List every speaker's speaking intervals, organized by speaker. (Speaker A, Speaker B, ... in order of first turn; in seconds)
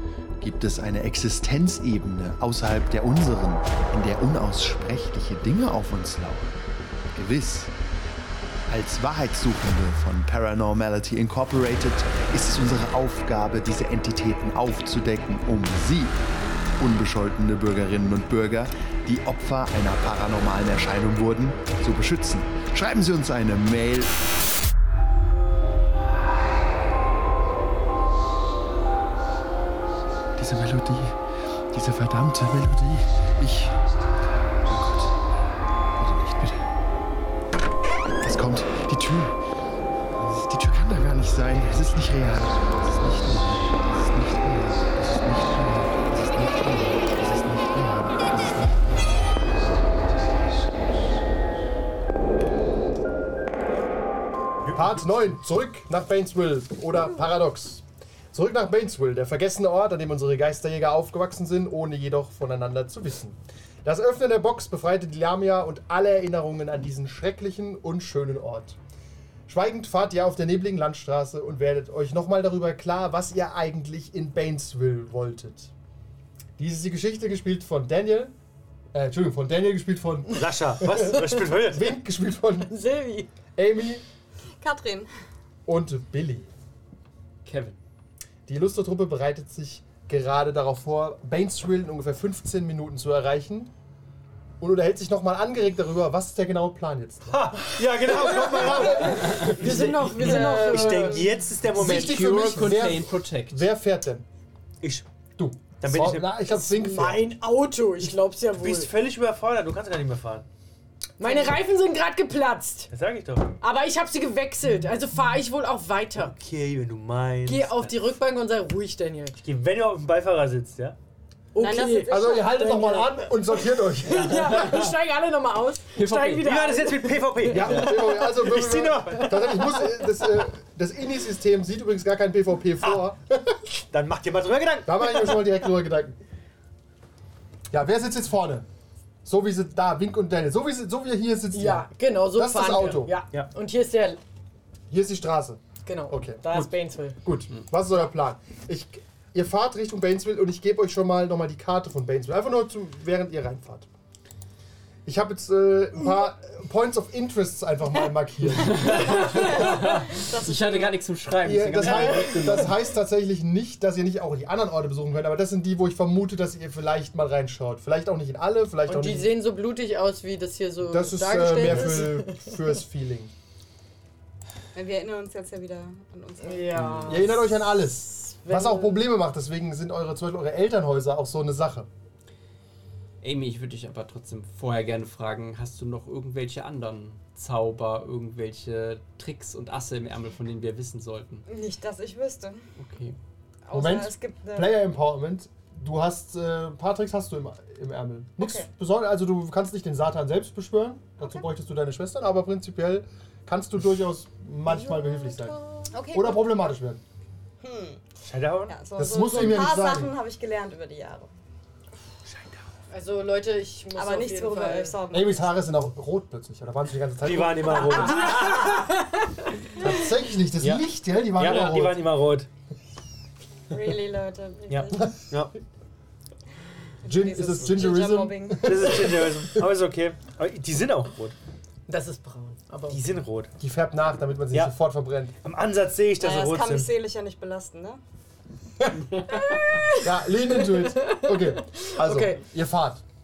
Speaker A: 0.4-6.6, 7.1-7.7, 8.7-16.1, 16.8-24.1, 30.4-31.2, 31.7-33.8, 36.0-36.7, 38.2-39.4, 40.2-49.2
Speaker B: 54.6-55.3, 80.3-81.9, 97.3-102.8, 105.8-106.3, 108.6-110.5, 112.9-113.6, 116.1-118.0, 119.4-121.0, 126.4-129.5, 133.9-135.4, 208.2-208.8, 217.2-218.9, 220.6-222.5, 224.7-225.5, 228.6-231.3, 232.9-233.5, 235.4-236.9
Speaker C: 54.7-68.8, 69.5-75.7, 76.6-78.3, 78.9-82.7, 83.6-84.0, 85.7-86.5, 88.5-93.7, 94.6-100.7, 101.7-104.3, 105.4-107.3, 122.1-124.8, 127.5-133.6, 134.8-136.2, 137.7-138.7, 139.2-143.1, 144.9-153.9, 155.0-160.0, 161.4-169.3, 170.8-173.3, 177.1-181.9, 193.7-205.6, 206.1-207.0, 209.0-210.1, 215.1-218.3, 219.8-222.1, 227.0-229.4, 233.6-235.3, 239.9-243.0
Speaker D: 82.7-83.3, 98.6-101.3, 106.5-108.9, 111.2-112.9, 113.6-116.3, 117.5-119.4, 121.5-128.3, 129.2-129.9, 141.5-144.2, 145.8-147.2, 161.9-162.6, 168.9-172.6, 176.4-179.0, 212.9-215.0, 231.9-233.0, 239.3-242.4
Speaker E: 84.6-85.1, 99.5-101.4, 121.6-123.0, 158.9-160.9, 174.7-177.1, 191.5-192.6, 193.6-194.7, 198.4-198.7, 201.2-201.4, 205.9-206.6, 207.6-208.0, 208.7-211.3, 213.9-215.6, 223.7-225.2, 227.0-229.2, 236.2-238.0
Speaker F: 87.5-87.8, 101.8-103.7, 126.0-126.5, 158.6-162.8, 176.8-177.2, 183.2-191.4, 192.8-193.2